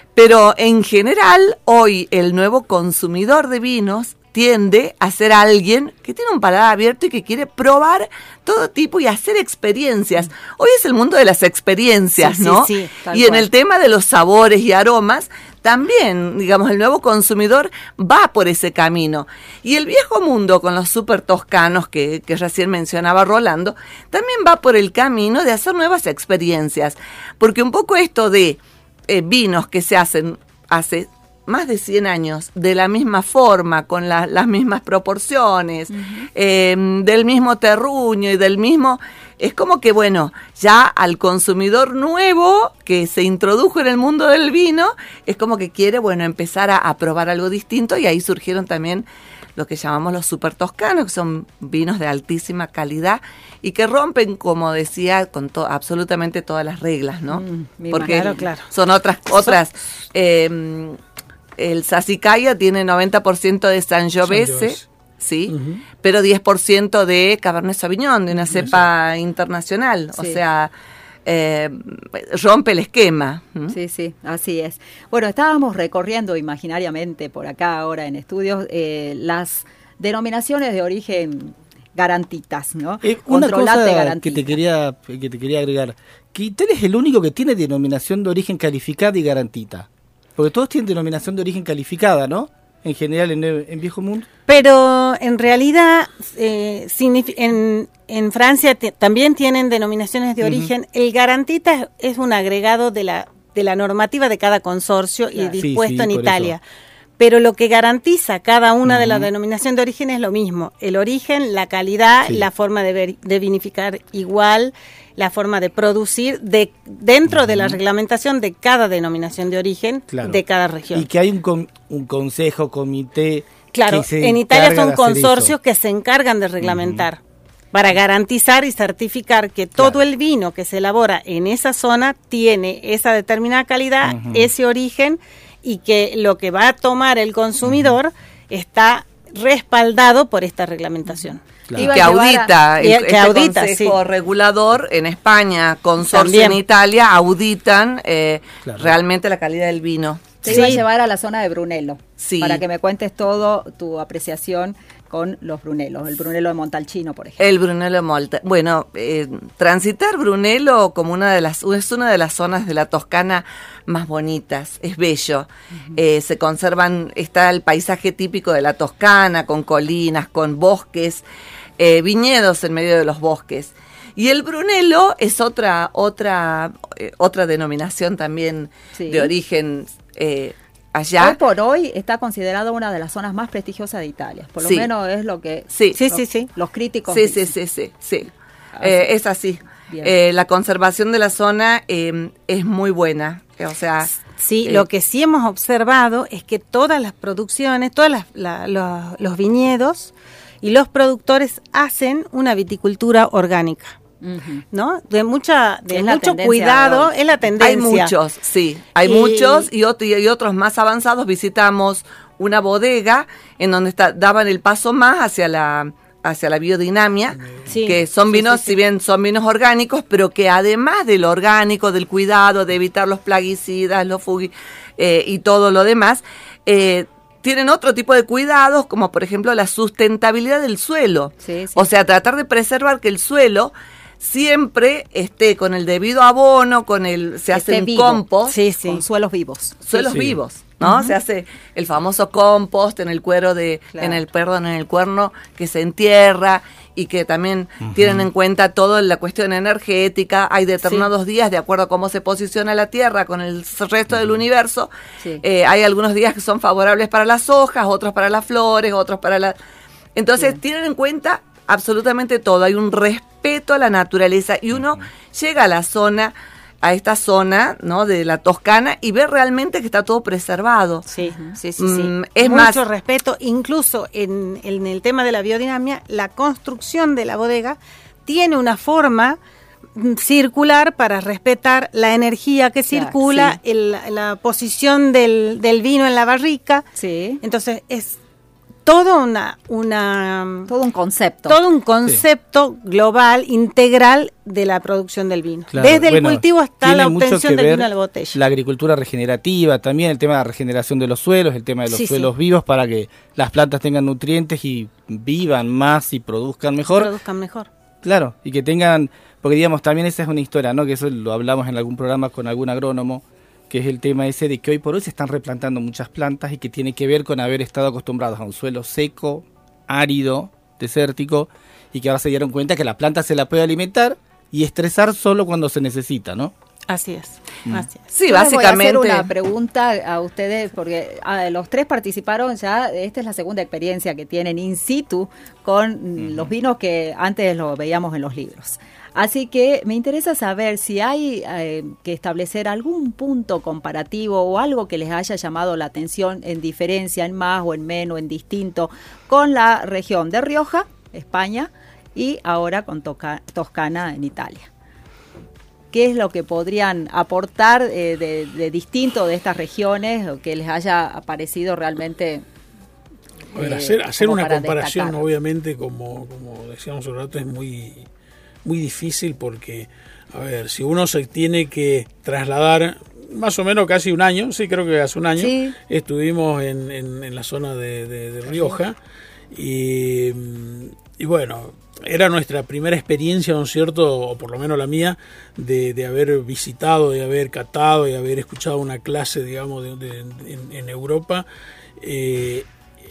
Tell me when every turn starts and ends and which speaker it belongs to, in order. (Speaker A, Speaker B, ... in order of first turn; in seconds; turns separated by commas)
Speaker A: 0.1-61.0, Speaker B: 12.2-13.4, Speaker C: 35.9-36.3, Speaker C: 57.3-58.5, Speaker B: 58.0-58.7, Speaker A: 61.6-70.7, Speaker D: 64.2-64.9, Speaker D: 65.5-65.8, Speaker D: 68.5-68.8, Speaker A: 71.2-73.8, Speaker C: 73.7-84.6, Speaker E: 83.0-94.2, Speaker B: 94.5-106.6, Speaker E: 100.4-100.7, Speaker E: 105.6-106.5, Speaker B: 107.2-121.1, Speaker E: 108.8-109.3, Speaker E: 117.3-117.8, Speaker E: 120.1-120.4, Speaker E: 120.9-125.5, Speaker B: 123.7-127.2, Speaker E: 126.6-127.0, Speaker B: 127.7-141.4, Speaker E: 134.0-134.5, Speaker E: 137.6-137.9, Speaker E: 141.7-141.9, Speaker C: 141.8-142.5, Speaker A: 141.8-150.6, Speaker B: 142.8-144.0, Speaker B: 146.0-146.6, Speaker E: 148.6-148.9, Speaker C: 150.4-157.4, Speaker B: 150.4-150.8, Speaker A: 152.2-152.6, Speaker A: 157.4-171.2, Speaker A: 171.8-181.4, Speaker C: 178.9-179.3, Speaker C: 181.2-187.5, Speaker A: 184.6-184.9, Speaker A: 185.7-186.0, Speaker B: 185.9-186.5, Speaker A: 187.1-194.1, Speaker C: 188.8-189.1, Speaker B: 194.4-203.9, Speaker C: 204.2-204.6, Speaker B: 204.7-208.1, Speaker C: 205.9-207.1, Speaker A: 207.6-238.6, Speaker B: 209.0-209.7, Speaker D: 217.3-217.7, Speaker B: 217.7-218.8, Speaker C: 231.4-231.9, Speaker C: 237.5-238.2, Speaker B: 238.5-239.0, Speaker C: 238.8-239.8, Speaker A: 239.8-259.6, Speaker E: 240.0-240.3, Speaker C: 240.8-241.1, Speaker E: 247.8-248.2, Speaker A: 260.1-271.1, Speaker E: 264.8-265.0, Speaker B: 271.1-279.4, Speaker C: 271.2-271.5, Speaker A: 271.8-272.8, Speaker B: 279.9-286.9, Speaker C: 282.9-283.6, Speaker C: 286.9-287.4, Speaker B: 287.4-288.2, Speaker B: 288.9-290.7, Speaker C: 290.7-291.6, Speaker B: 291.4-298.4, Speaker E: 295.7-307.1, Speaker B: 301.9-302.3, Speaker B: 306.9-307.7, Speaker E: 308.0-326.5, Speaker B: 326.9-328.1, Speaker A: 328.1-329.3, Speaker C: 328.3-354.7, Speaker E: 336.2-336.5, Speaker C: 355.9-362.4, Speaker C: 363.5-365.2, Speaker D: 363.5-368.1, Speaker D: 368.6-379.0, Speaker C: 375.4-375.8, Speaker D: 379.5-391.4, Speaker D: 392.0-392.7